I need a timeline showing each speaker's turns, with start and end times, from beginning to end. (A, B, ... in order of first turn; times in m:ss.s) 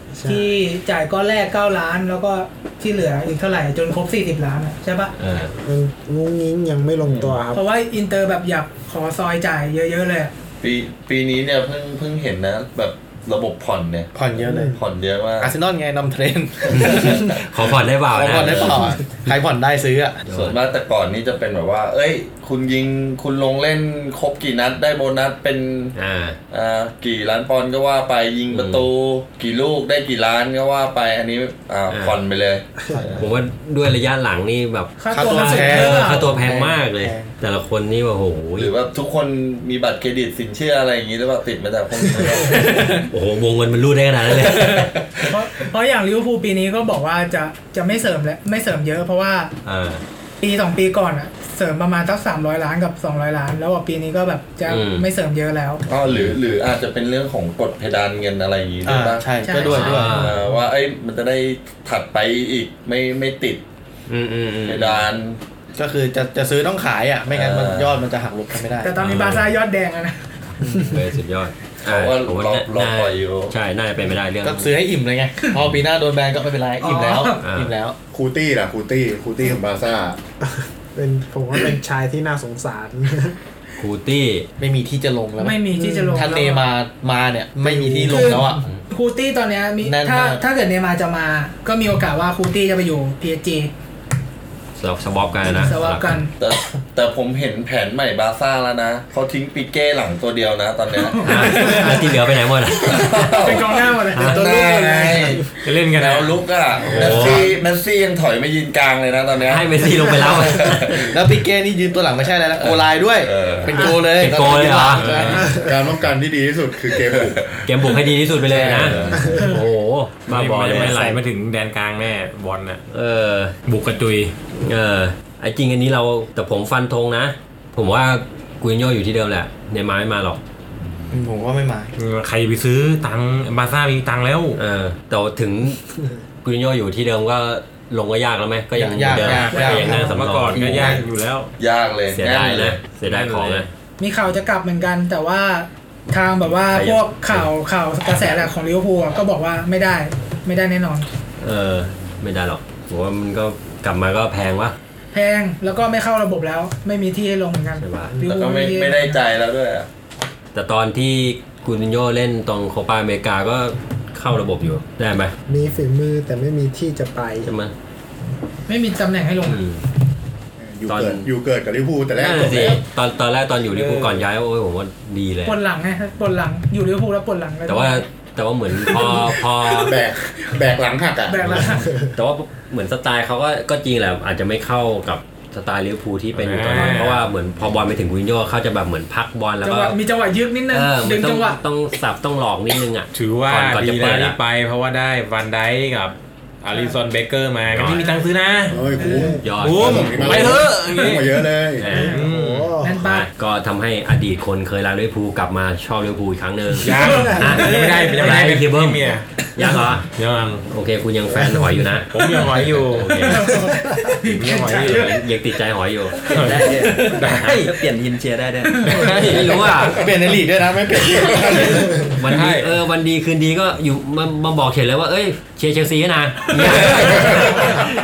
0:00.1-0:00.6 A
0:00.2-0:05.1 B
0:05.2-0:05.5 C
0:05.6-0:07.6 A
0:07.0-0:07.4 D
0:07.5-0:10.3 B
0:10.6-0:14.1 D
0:14.1-0:14.8 E
0:14.4-0:14.8 A
0:14.7-0:15.6 D
0:15.4-0:17.4 E
0:16.7-0:19.0 C
0:16.7-0:17.4 D
0:18.1-0:20.2 E
0:18.4-0:18.8 D
0:20.2-0:20.6 C
0:20.3-0:26.0 D
0:26.0-0:26.4 C
0:26.5-0:33.3 D
0:28.5-0:28.9 C
0:31.9-0:32.2 C
0:33.2-0:38.7 C
0:35.0-0:36.4 B
0:35.1-0:37.3 E
0:38.6-0:43.1 D
0:42.1-0:44.9 C
0:44.3-0:45.4 D
0:45.3-0:49.5 B
0:49.6-0:50.0 C
0:50.4-0:55.8 B
0:54.7-0:55.1 C
0:55.9-1:03.6 D
0:56.1-0:56.4 C
0:58.8-1:00.2 E
0:59.4-1:00.0 B
0:59.6-1:00.4 C
1:04.1-1:05.0 C
1:04.7-1:05.4 D
1:05.8-1:09.0 E
1:07.3-1:08.0 D
1:08.8-1:10.3 B
1:09.0-1:09.5 F
1:10.7-1:14.7 C
1:11.8-1:13.5 D
1:14.4-1:18.0 E
1:16.8-1:17.4 B
1:17.4-1:17.7 C
1:18.1-1:20.2 G
1:20.4-1:23.4 A
1:23.8-1:24.5 C
1:24.6-1:25.6 E
1:25.4-1:26.7 B
1:25.7-1:26.2 A
1:26.1-1:28.6 E
1:27.6-1:28.5 A
1:28.1-1:33.7 B
1:29.8-1:30.4 E
1:34.8-1:36.2 C
1:35.4-1:36.3 B
1:36.4-1:41.9 D
1:41.0-1:42.1 B
1:41.2-1:43.5 C
1:42.8-1:51.2 D
1:43.3-1:45.2 B
1:44.1-1:44.4 C
1:45.1-1:45.4 A
1:45.6-1:46.4 F
1:46.8-1:47.5 C
1:47.0-1:47.4 F
1:49.5-1:51.0 C
1:51.1-1:55.4 E
1:52.6-1:55.3 D
1:54.1-1:55.4 C
1:55.0-1:55.6 F
1:55.3-1:55.7 A
1:55.4-1:57.5 G
1:57.1-1:57.9 D
1:57.6-2:01.1 C
1:58.5-1:59.5 D
2:00.3-2:02.8 F
2:00.9-2:01.1 A
2:02.9-2:03.6 C
2:03.7-2:04.4 F
2:04.5-2:10.4 C
2:11.1-2:11.9 E
2:12.0-2:14.6 F
2:14.6-2:15.8 C
2:16.4-2:21.0 C
2:18.7-2:21.0 E
2:19.1-2:21.5 F
2:19.7-2:20.1 A
2:21.6-2:22.8 D
2:22.1-2:23.7 C
2:23.1-2:23.7 F
2:24.0-2:31.1 B
2:26.6-2:27.5 C
2:31.4-2:34.8 C
2:35.1-2:39.2 B
2:37.8-2:38.2 C
2:38.2-2:39.9 D
2:40.6-2:45.4 C
2:45.5-2:47.5 A
2:47.4-2:47.7 C
2:48.7-2:49.6 B
2:49.4-2:49.8 C
2:50.6-2:52.8 G
2:50.9-2:51.3 C
2:52.2-2:55.6 C
2:53.7-2:54.2 F
2:55.4-2:58.0 B
2:57.7-3:00.0 C
2:58.9-2:59.2 B
2:59.8-3:01.7 G
3:01.3-3:02.0 B
3:01.4-3:10.0 C
3:06.4-3:07.2 F
3:06.8-3:07.2 B
3:09.6-3:11.6 B
3:10.7-3:14.4 C
3:13.1-3:18.8 F
3:17.7-3:18.0 C
3:17.8-3:19.5 B
3:18.7-3:21.9 G
3:19.0-3:19.4 A
3:19.4-3:20.6 C
3:19.6-3:21.3 F
3:21.8-3:22.2 C
3:21.8-3:23.0 A
3:22.1-3:22.7 F
3:22.8-3:23.3 B
3:22.9-3:29.0 C
3:26.8-3:29.3 F
3:27.0-3:28.1 B
3:27.1-3:27.7 A
3:29.6-3:30.1 C
3:30.1-3:30.7 F
3:30.7-3:32.2 C
3:31.3-3:31.8 A
3:32.1-3:33.2 F
3:32.9-3:33.6 C
3:33.1-3:35.1 B
3:33.6-3:34.0 A
3:34.3-3:35.1 F
3:34.8-3:37.0 C
3:36.3-3:37.8 F
3:36.6-3:39.2 H
3:38.7-3:39.3 B
3:38.8-3:39.5 F
3:39.0-3:42.0 E
3:39.2-3:40.0 C
3:42.1-3:47.9 C
3:42.2-3:42.7 F
3:46.6-3:47.8 F
3:46.9-3:47.8 D